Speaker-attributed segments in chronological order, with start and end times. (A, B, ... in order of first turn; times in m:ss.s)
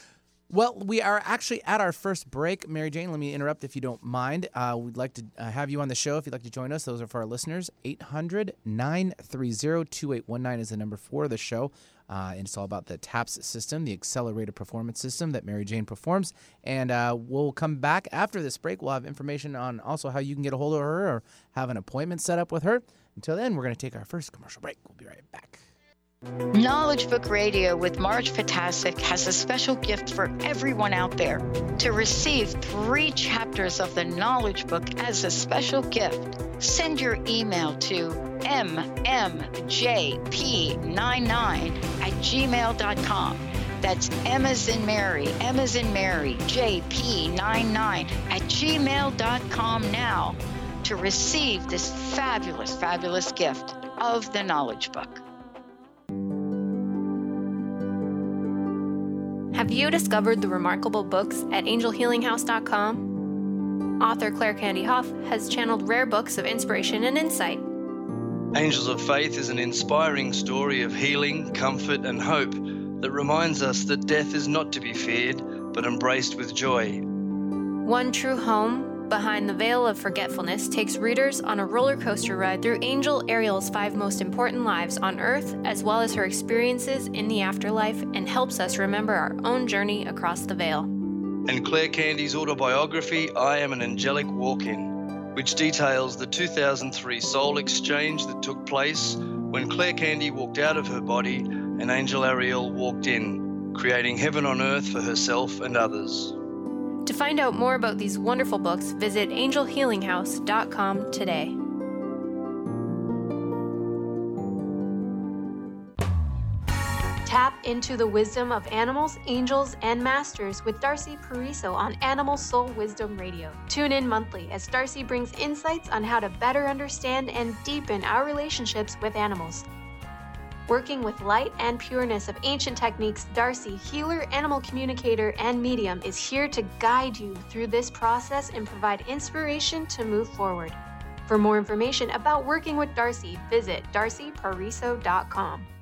0:00.5-0:25.6 A
0:26.5-0:55.2 B
0:59.5-1:03.1 C
1:04.0-1:07.6 C
1:08.5-1:17.0 D
1:17.8-1:30.9 C
1:31.5-1:46.4 D
1:47.0-1:51.6 C
1:57.2-2:09.6 C
2:10.7-2:25.7 C